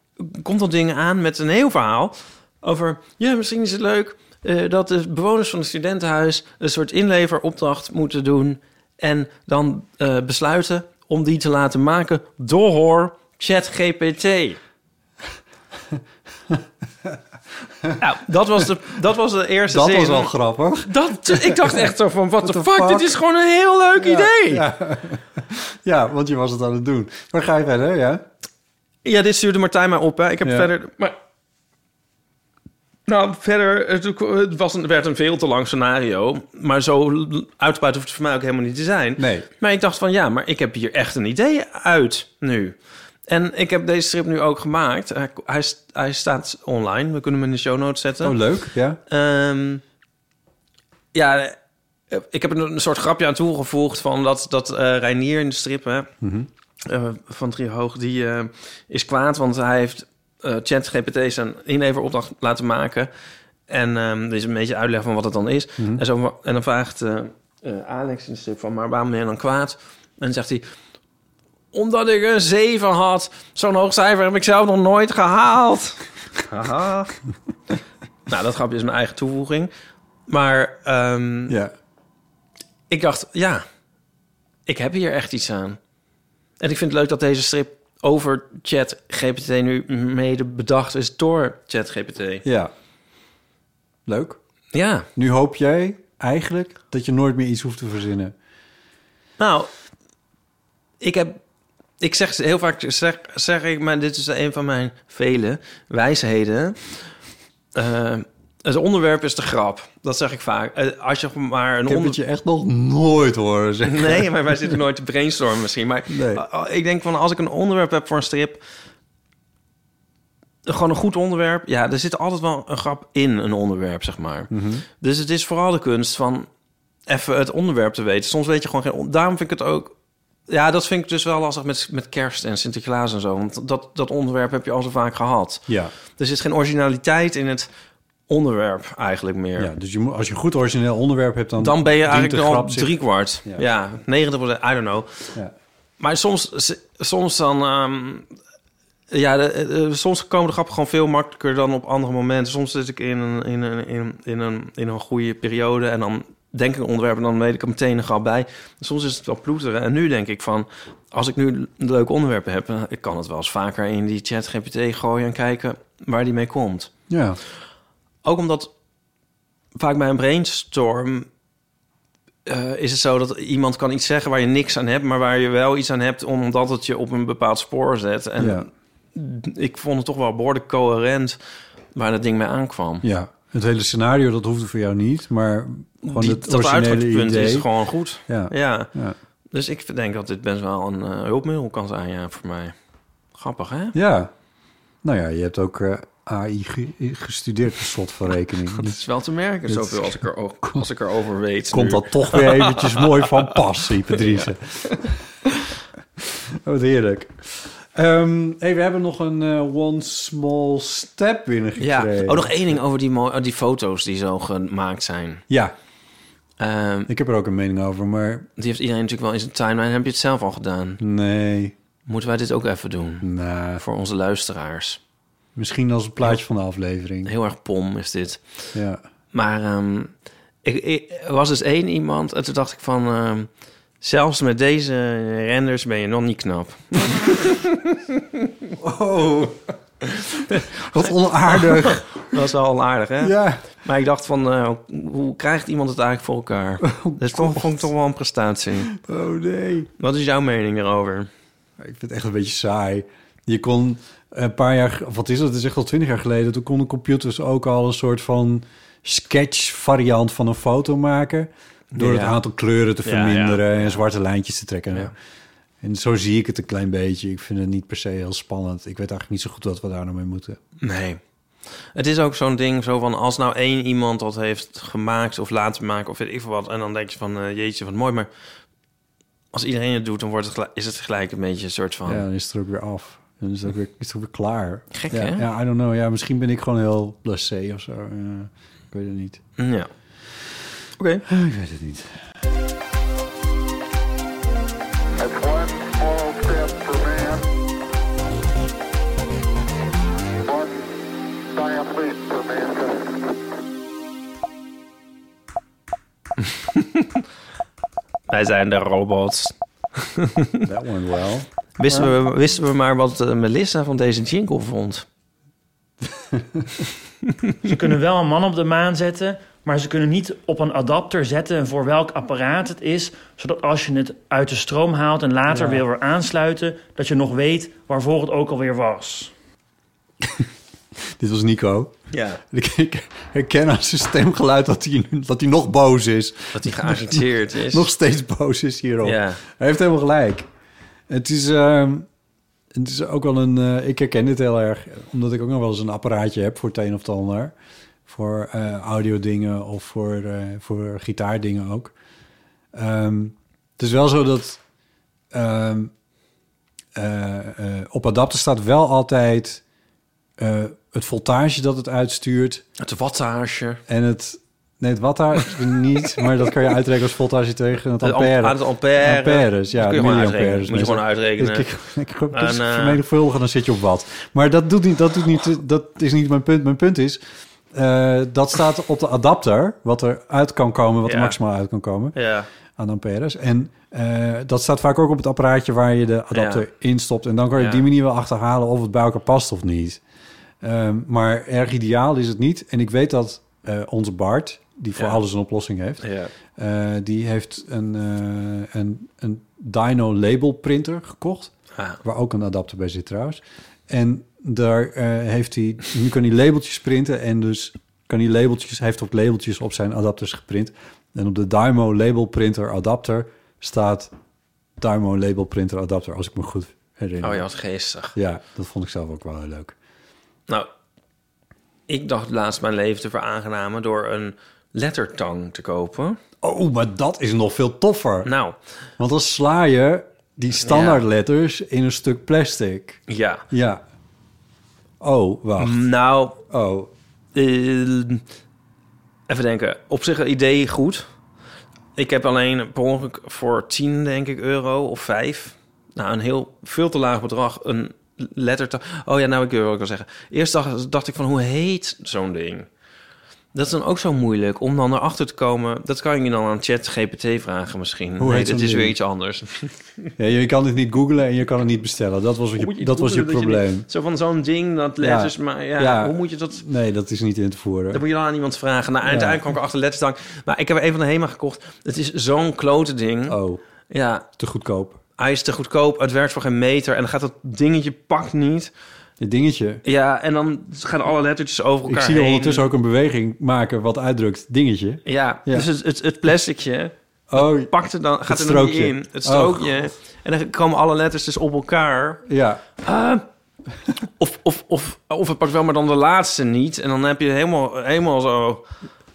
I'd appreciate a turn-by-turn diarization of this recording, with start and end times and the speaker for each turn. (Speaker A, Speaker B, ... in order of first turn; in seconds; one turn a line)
Speaker A: 0.2-14.6
Speaker A: 18.0-20.3
Speaker B: 19.7-21.9
Speaker A: 20.8-24.6
Speaker B: 22.4-23.1
Speaker B: 24.0-28.2
Speaker A: 29.0-31.1
Speaker B: 30.4-30.7
Speaker A: 33.1-42.7
Speaker B: 39.2-39.5
Speaker A: 43.3-48.4
Speaker B: 48.2-49.0
Speaker A: 49.1-49.8
Speaker A: 51.1-51.5
Speaker A: 52.1-56.1
Speaker B: 56.2-56.5
Speaker A: 56.8-63.1
Speaker A: 63.7-70.7
Speaker A: 71.7-77.1
Speaker A: 78.3-79.7
Speaker A: 80.3-81.6
Speaker B: 81.5-81.7
Speaker A: 82.9-83.6
Speaker A: 84.7-85.8
Speaker A: 86.6-92.5
Speaker B: 92.4-92.7
Speaker B: 94.0-94.4
Speaker A: 94.7-95.1
Speaker B: 95.2-98.3
Speaker A: 99.4-99.7
Speaker A: 101.0-101.4
Speaker A: 102.0-106.9
Speaker A: 107.7-112.2
Speaker B: 111.8-114.3
Speaker A: 113.8-118.6
Speaker B: 116.1-116.4
Speaker A: 120.7-126.5
Speaker B: 124.5-124.8
Speaker A: 127.1-129.9
Speaker A: 130.5-137.7
Speaker B: 135.7-135.9
Speaker A: 138.3-139.7
Speaker B: 139.6-142.9
Speaker A: 141.6-145.1
Speaker A: 146.0-148.3
Speaker A: 149.1-166.9
Speaker B: 167.1-167.4
Speaker A: 168.2-168.7
Speaker A: 169.8-171.3
Speaker A: 172.5-181.4
Speaker B: 178.4-178.7
Speaker A: 181.9-183.0
Speaker B: 183.0-187.7
Speaker A: 186.0-188.9
Speaker B: 188.3-189.2
Speaker A: 189.5-192.7
Speaker A: 193.3-193.9
Speaker B: 193.9-194.3
Speaker B: 195.0-199.0
Speaker A: 198.8-203.4
Speaker B: 199.7-200.8
Speaker B: 201.7-205.1
Speaker A: 204.2-205.0
Speaker B: 206.2-212.6
Speaker A: 211.8-215.4
Speaker A: 216.6-217.1
Speaker B: 217.1-218.5
Speaker A: 218.6-221.0
Speaker B: 221.0-221.7
Speaker A: 222.1-223.3
Speaker B: 223.2-223.8
Speaker A: 223.8-225.0
Speaker B: 225.5-227.3
Speaker A: 227.2-228.4
Speaker B: 228.7-229.0
Speaker A: 229.3-230.1
Speaker A: 230.6-233.5
Speaker A: 234.0-238.7
Speaker B: 238.8-239.6
Speaker A: 240.0-240.7
Speaker B: 240.5-242.4
Speaker A: 241.5-248.9
Speaker B: 243.2-243.7
Speaker B: 246.8-247.9
Speaker B: 248.9-249.9
Speaker A: 250.0-251.3
Speaker B: 251.8-265.1
Speaker A: 261.9-262.4
Speaker A: 263.0-264.0
Speaker B: 265.8-270.6
Speaker A: 270.8-271.2
Speaker A: 271.9-278.3
Speaker A: 279.5-282.2
Speaker B: 282.1-289.4
Speaker A: 284.9-285.4
Speaker A: 289.6-289.9
Speaker A: 291.0-291.2
Speaker B: 291.3-292.1
Speaker C: 295.2-297.5
Speaker C: 300.4-300.9
Speaker C: 301.5-303.2
Speaker A: 306.7-307.0
Speaker A: 308.3-310.6
Speaker B: 310.6-312.1
Speaker A: 311.8-315.0
Speaker B: 316.3-316.7
Speaker D: 317.6-329.3
Speaker B: 325.5-325.8
Speaker B: 331.2-331.9
Speaker A: 332.1-332.4
Speaker B: 332.5-340.5
Speaker A: 336.5-337.9
Speaker A: 339.0-339.4
Speaker B: 341.1-342.1
Speaker B: 342.7-347.5
Speaker B: 348.1-351.9
Speaker B: 352.7-354.6
Speaker B: 355.3-355.9
Speaker B: 356.9-359.6
Speaker B: 360.4-362.6
Speaker A: 362.8-363.8
Speaker B: 363.9-377.2
Speaker A: 368.0-371.7
Speaker A: 372.3-373.0
Speaker B: 377.7-382.1
Speaker A: 381.1-381.4
Speaker A: 382.1-382.5
Speaker B: 382.8-390.0
Speaker A: 386.3-386.6
Speaker A: 387.6-387.8
Speaker B: 390.6-396.0
Speaker A: 396.0-396.3
Speaker B: 396.6-401.5
Speaker B: 402.0-414.1
Speaker B: 414.8-417.4
Speaker A: 417.2-418.1
Speaker B: 418.1-419.7
Speaker A: 421.9-426.2
Speaker B: 426.4-428.3
Speaker A: 428.2-428.6
Speaker B: 429.0-433.8
Speaker A: 430.6-431.0
Speaker A: 433.1-433.4
Speaker B: 435.0-435.8
Speaker A: 435.6-436.4
Speaker B: 436.5-436.9
Speaker A: 437.3-438.2
Speaker A: 439.3-441.1
Speaker A: 441.9-452.7
Speaker A: 453.5-460.1
Speaker B: 458.2-458.9
Speaker B: 460.2-463.9
Speaker A: 462.6-466.6
Speaker B: 465.0-468.0
Speaker A: 467.9-473.4
Speaker B: 469.0-469.4
Speaker B: 473.3-473.6
Speaker A: 473.9-474.3
Speaker B: 474.4-475.0
Speaker A: 475.2-478.7
Speaker B: 479.2-479.8
Speaker A: 479.8-482.7
Speaker B: 481.8-485.7
Speaker A: 485.1-492.2
Speaker B: 487.3-487.7
Speaker B: 488.2-489.7
Speaker B: 492.3-492.6
Speaker A: 492.8-493.2
Speaker A: 494.2-498.6